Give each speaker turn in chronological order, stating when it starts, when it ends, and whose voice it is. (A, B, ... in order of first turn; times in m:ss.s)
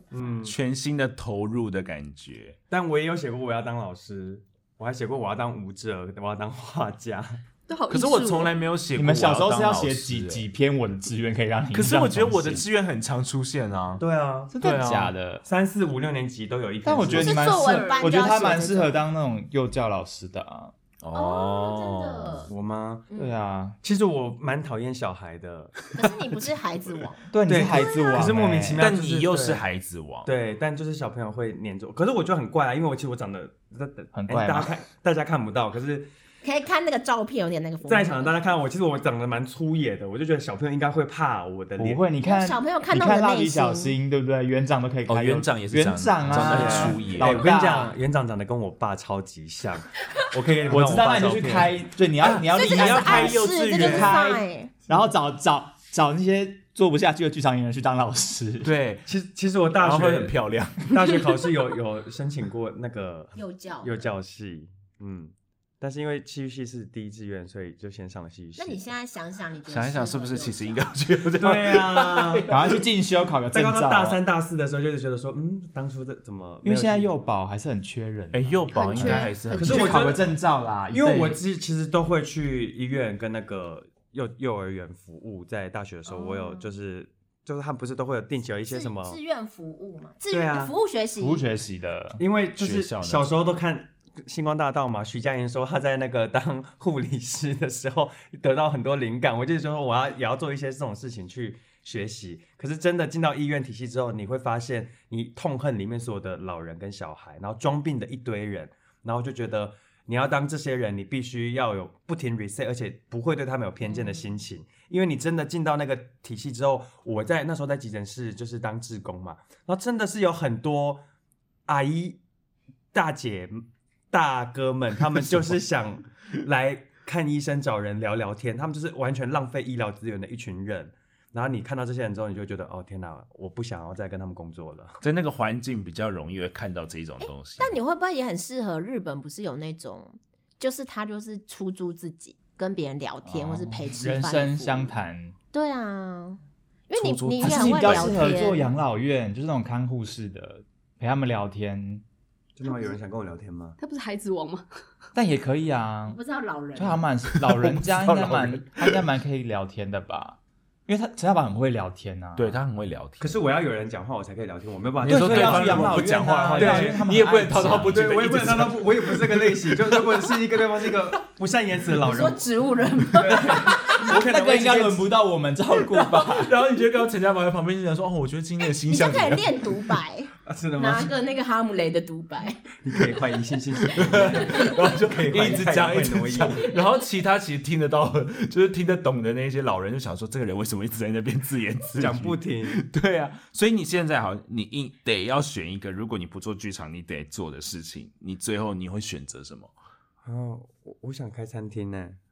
0:00.1-0:00.5 A
0:00.4-0:02.6 B
0:02.7-0:07.4 A
0:07.7-0:08.6 C
0:07.9-0:10.4 B
0:09.0-0:12.6 D
0:11.7-0:14.0 B
0:14.0-0:14.5 A
0:14.5-0:15.4 D
0:14.6-0:15.1 B
0:15.4-0:17.5 A
0:16.8-0:20.7 D
0:17.1-0:19.0 E
0:17.4-0:18.2 C
0:21.0-0:22.5 B
0:21.1-0:22.5 E
0:22.5-0:23.1 A
0:23.2-0:23.8 D
0:23.8-0:25.9 A
0:25.9-0:28.3 E
0:27.3-0:28.8 D
0:27.5-0:29.6 A
0:28.8-0:30.3 B
0:30.2-0:36.1 A
0:34.1-0:34.7 D
0:36.4-0:38.3 E
0:37.8-0:42.0 A
0:41.8-0:47.9 D
0:42.2-0:44.0 E
0:45.1-0:47.5 B
0:46.3-0:51.7 A
0:50.7-0:58.7 D
0:52.2-0:54.2 B
0:52.5-0:54.7 E
0:58.6-0:59.0 B
0:59.1-1:00.3 A
0:59.8-1:00.9 B
1:00.8-1:08.8 A
1:03.3-1:04.0 E
1:08.6-1:10.9 E
1:09.7-1:12.7 B
1:11.4-1:12.5 A
1:12.5-1:14.2 D
1:13.5-1:17.1 A
1:16.6-1:21.4 D
1:18.3-1:20.2 B
1:18.7-1:19.6 E
1:18.8-1:19.3 C
1:19.5-1:20.3 A
1:20.9-1:29.2 A
1:26.1-1:26.7 E
1:28.7-1:31.4 E
1:30.3-1:30.7 A
1:31.2-1:32.2 D
1:32.2-2:01.0 A
1:32.6-1:33.3 B
1:53.9-1:54.3 E
2:01.7-2:02.2 A
2:02.9-2:15.0 A
2:15.0-2:17.8 B
2:17.2-2:24.9 E
2:23.2-2:25.3 D
2:25.5-2:28.7 E
2:26.9-2:28.4 B
2:27.4-2:32.0 D
2:32.6-2:33.8 A
2:33.8-2:34.6 C
2:35.1-2:36.2 D
2:36.1-2:37.0 E
2:36.8-2:42.6 D
2:37.3-2:39.0 B
2:42.4-2:43.4 B
2:43.2-2:47.0 A
2:45.0-2:51.0 B
2:45.0-2:48.1 D
2:47.5-2:52.4 A
2:52.0-2:54.0 E
2:53.1-2:55.1 A
2:54.1-2:56.5 D
2:55.9-2:59.8 B
2:58.8-3:02.6 E
3:00.4-3:01.1 A
3:02.8-3:06.7 A
3:03.9-3:19.7 B
3:04.4-3:04.7 E
3:12.0-3:12.8 A
3:20.2-3:22.2 A